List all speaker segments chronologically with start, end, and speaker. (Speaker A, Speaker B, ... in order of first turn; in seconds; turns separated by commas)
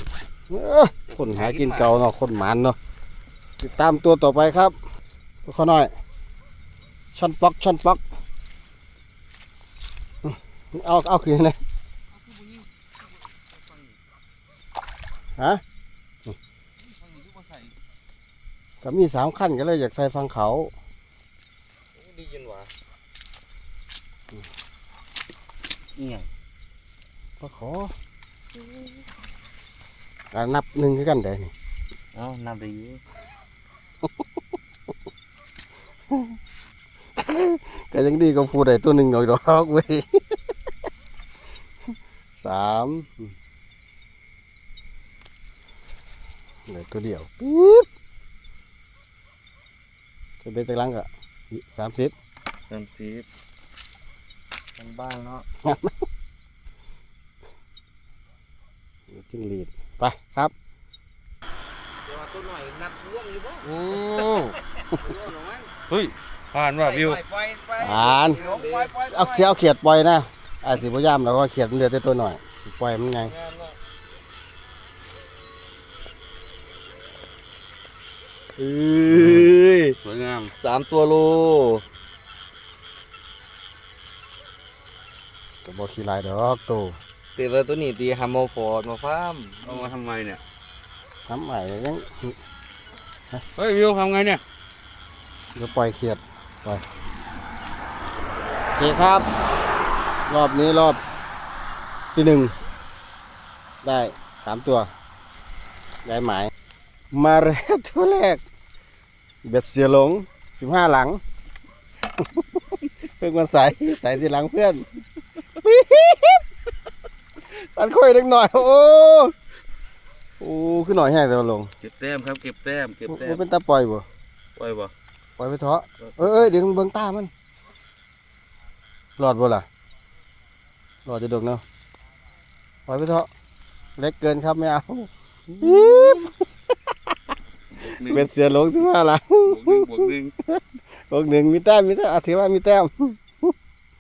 Speaker A: 0.5-2.8, Speaker B: 1.1-2.0, Speaker A: 3.6-4.8, Speaker A: 5.5-5.9, Speaker A: 7.1-8.0, Speaker A: 10.2-11.6, Speaker A: 15.4-15.6, Speaker C: 17.2-17.7, Speaker A: 18.8-20.7, Speaker B: 21.9-22.7, Speaker C: 26.0-26.3, Speaker A: 27.4-27.9, Speaker A: 30.3-31.5, Speaker B: 32.1-33.0, Speaker A: 36.1-36.4, Speaker A: 37.2-40.2, Speaker A: 42.4-43.3, Speaker A: 46.7-47.9, Speaker A: 50.4-52.1, Speaker B: 52.7-53.2, Speaker B: 54.8-55.5, Speaker A: 55.6-56.0, Speaker A: 59.1-60.5, Speaker B: 62.0-65.7, Speaker C: 63.6-64.6, Speaker C: 65.9-67.2, Speaker B: 66.8-69.0, Speaker A: 67.8-68.4, Speaker C: 68.2-69.2, Speaker A: 69.0-73.3, Speaker B: 73.2-73.8, Speaker A: 78.6-80.0, Speaker C: 79.1-80.5, Speaker B: 80.6-81.8, Speaker A: 85.6-87.0, Speaker B: 87.3-89.9, Speaker C: 89.6-90.4, Speaker A: 91.3-92.4, Speaker C: 93.6-94.4, Speaker A: 95.5-96.8, Speaker A: 98.8-99.3, Speaker A: 100.3-101.0, Speaker A: 102.2-102.5, Speaker A: 103.8-104.9, Speaker A: 106.0-106.5, Speaker A: 107.1-108.4, Speaker A: 109.5-111.2, Speaker A: 112.2-112.7, Speaker A: 113.2-114.9, Speaker A: 115.6-116.4, Speaker A: 117.4-119.3, Speaker A: 120.4-121.7, Speaker C: 121.8-123.4, Speaker A: 123.1-124.0, Speaker C: 124.6-124.9, Speaker A: 125.4-127.3, Speaker C: 126.0-126.5, Speaker A: 129.2-129.7, Speaker A: 131.1-131.6, Speaker A: 132.9-133.3, Speaker A: 134.0-135.1, Speaker C: 135.5-136.2, Speaker A: 135.6-136.5, Speaker C: 137.7-138.3, Speaker A: 137.9-143.5, Speaker C: 139.4-140.3